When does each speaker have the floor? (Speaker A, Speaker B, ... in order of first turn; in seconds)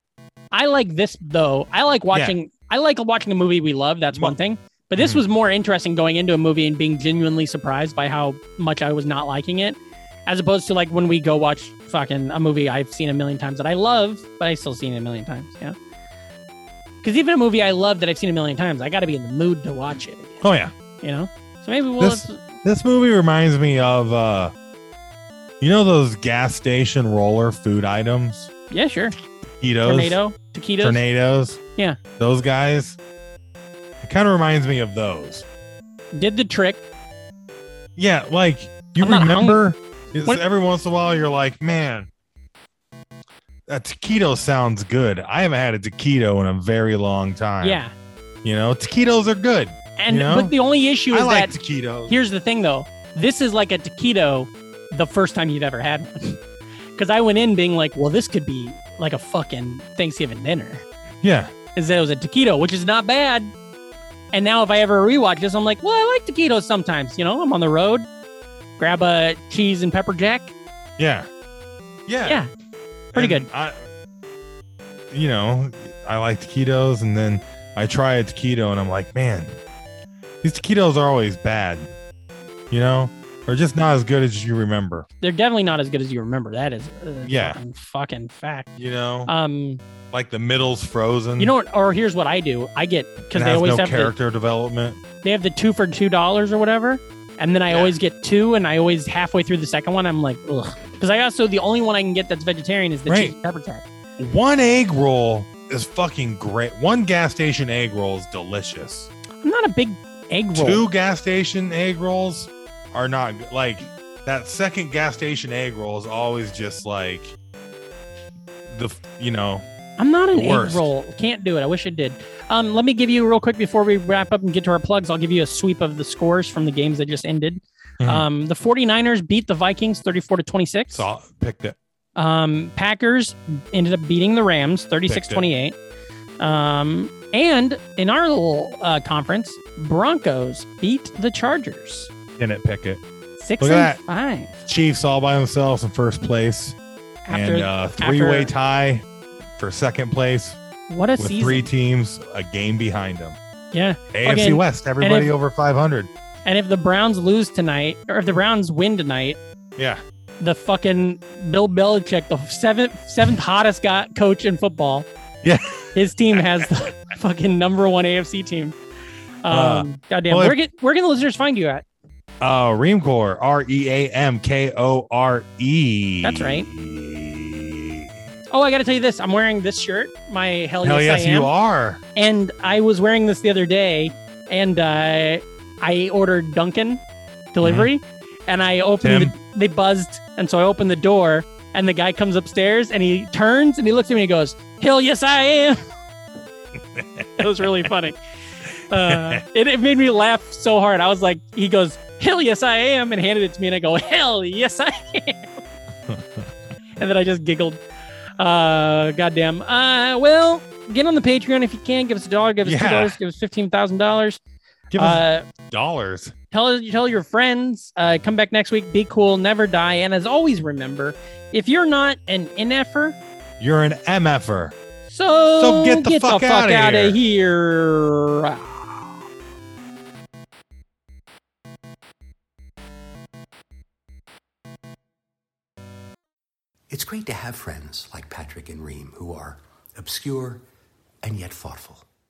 Speaker A: 0.5-15.7, 17.0-20.4, 21.0-22.4, 28.7-29.1, 29.8-31.0, 36.1-36.8, 39.0-39.6, 47.6-47.9, 50.0-51.5, 52.1-56.4, 57.0-60.8, 61.8-63.5, 64.3-68.0, 68.8-70.5, 73.1-73.5, 85.2-88.7, 89.3-89.8, 91.4-94.1, 95.2-103.8, 109.4-110.8, 120.0-131.1, 132.2-135.8, 136.4-142.1, 143.4-144.6, 147.2-148.5, 150.9-151.7, 153.7-155.3, 156.4-159.4, 160.4-165.1, 165.9-168.7, 169.4-171.8, 176.2-176.7, 178.5-181.5, 182.1-187.0, 187.5-195.8, 197.4-198.2, 198.9-205.5, 207.0-207.8, 208.4-214.4, 214.9-215.5, 216.5-223.2, 225.1-228.7
Speaker B: 20.4-20.7, 22.0-24.5, 25.6-28.5, 29.6-30.2, 30.8-31.6, 32.2-33.0, 34.0-35.5, 38.0-42.1, 43.7-47.8, 48.4-50.5, 51.1-52.1, 61.2-61.5, 71.0-71.3, 72.1-72.4, 73.1-73.8, 75.1-79.6, 80.4-81.9, 82.7-85.1, 87.2-87.6, 88.8-89.3, 90.1-91.5, 93.3-95.0, 97.7-97.9, 103.1-103.3, 104.2-109.1, 110.5-117.3, 118.7-119.6, 120.3-120.9, 128.0-128.2, 130.9-131.8, 135.1-135.5, 142.4-143.0, 143.6-144.0, 144.7-146.8, 147.3-149.0, 149.6-150.6, 151.2-153.4, 154.1-156.1, 159.8-160.0, 165.4-166.6, 169.5-170.6, 172.4-178.1, 180.8-182.0, 187.6-187.9, 189.0-189.3, 196.9-197.4, 199.1-199.4, 212.6-213.2, 214.9-216.3, 223.6-224.8, 225.6-227.2
Speaker C: 236.9-240.6, 241.2-242.0